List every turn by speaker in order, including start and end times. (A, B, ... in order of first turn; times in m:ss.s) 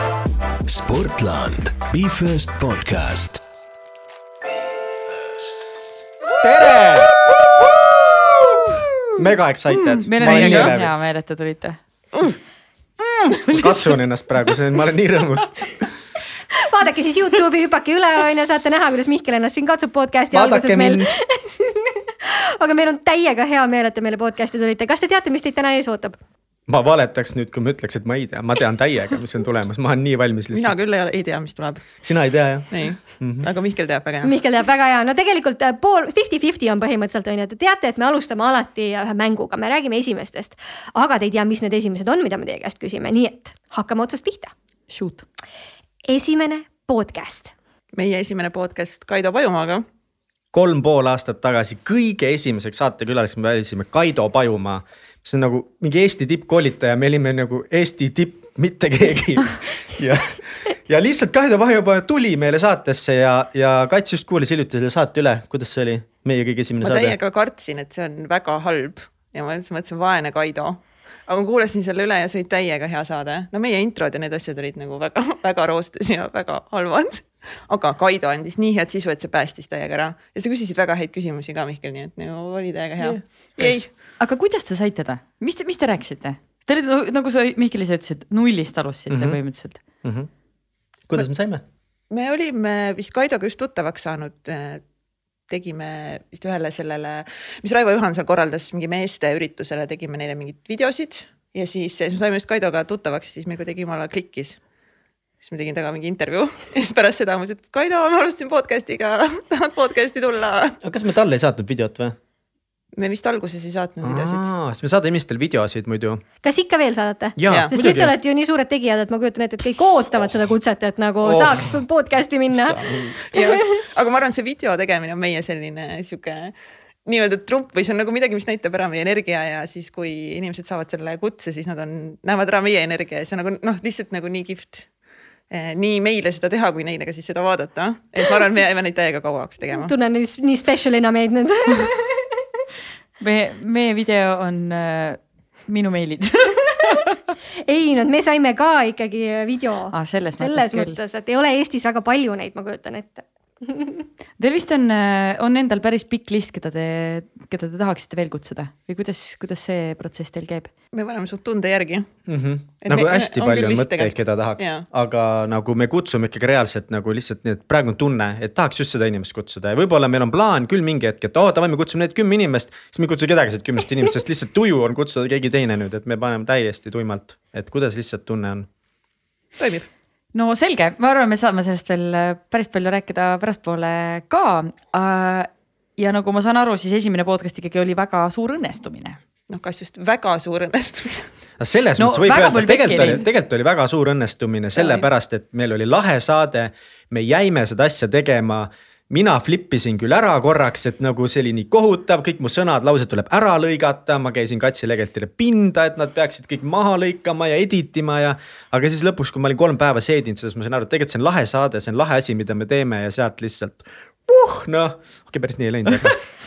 0:00.6-0:03.4 A
0:06.4-0:07.2 B
0:07.5-0:08.8 C
0:09.2-0:10.9 B
0:09.7-0:10.7 D
0:10.0-0:11.8 C
0:13.3-0:14.0 C
0:13.5-0:15.8 B
0:16.6-0:26.2 E
0:20.3-0:21.1 B
0:26.7-0:30.8 B
0:30.5-0:32.0 D
0:32.0-0:33.5 B
0:32.7-0:34.3 D
0:34.2-0:44.5 E
0:44.9-0:45.2 C
0:46.1-0:47.5 E
0:47.9-0:49.8 D
0:50.5-1:07.2 B
1:06.8-1:23.9 D
1:23.0-1:23.8 B
1:24.1-1:29.8 C
1:29.1-1:29.4 B
1:30.0-1:30.3 B
1:31.1-1:31.6 B
1:32.1-1:34.8 D
1:35.5-1:44.6 D
1:45.4-1:50.8 D
1:50.8-1:52.2 B
1:53.0-1:54.5 D
1:54.0-1:56.2 B
1:56.4-2:03.6 E
1:57.4-1:58.1 B
2:01.2-2:01.7 B
2:02.5-2:03.3 B
2:03.3-2:06.5 D
2:07.1-2:14.9 D
2:15.5-2:19.9 D
2:19.8-2:22.4 E
2:23.2-2:27.0 C
2:27.7-2:34.1 E
2:29.9-2:31.0 C
2:34.4-2:40.7 C
2:40.9-2:42.1 D
2:42.3-2:58.7 B
2:42.8-2:44.8 D
2:59.6-2:59.9 D
3:00.3-3:09.2 C
3:09.5-3:11.3 D
3:11.6-3:36.2 B
3:12.0-3:13.2 C
3:14.8-3:15.0 D